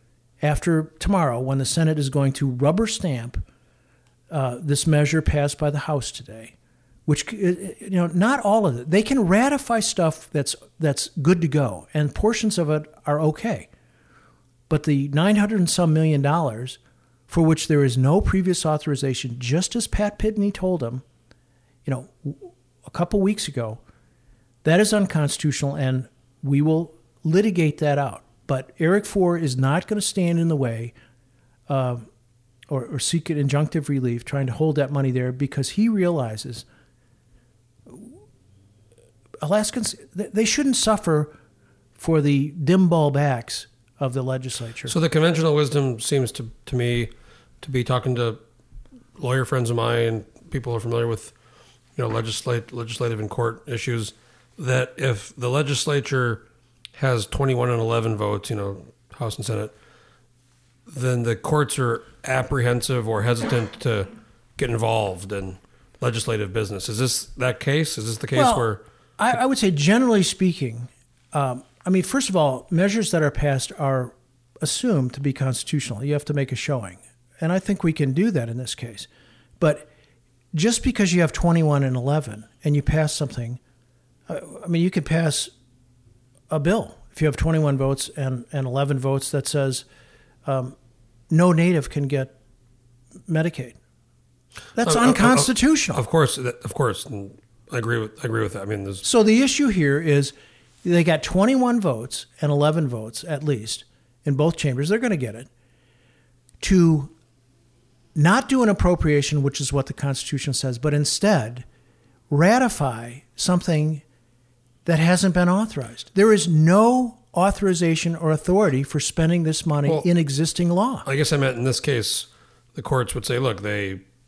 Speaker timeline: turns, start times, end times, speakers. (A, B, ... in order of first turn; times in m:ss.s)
0:00.4-0:03.4 A
0:04.3-0:06.5 A
0:07.1-0:13.7 A
0:14.7-0:21.0 A
0:21.8-0:23.8 A
0:24.6-0:30.9 A
0:31.7-0:32.1 A
0:32.7-0:36.6 A
0:39.4-0:41.3 A
0:42.0-0:44.9 A
0:44.9-0:48.4 B
0:49.2-0:51.3 B
0:51.9-0:56.4 B
0:57.0-0:59.7 B
1:00.9-1:08.8 B
1:08.3-1:19.1 A
1:19.6-1:19.9 A
1:20.5-1:23.6 A
1:24.3-1:25.5 A
1:26.5-1:29.8 A
1:30.4-1:30.8 A
1:31.3-1:32.3 A
1:33.3-1:33.8 A
1:34.8-1:36.0 A
1:34.8-1:39.0 B
1:39.0-1:40.3 A
1:40.8-1:45.5 A
1:46.6-1:47.1 A
1:48.1-1:51.6 A
1:52.3-1:54.0 A
1:54.8-2:01.1 A
2:01.0-2:04.0 B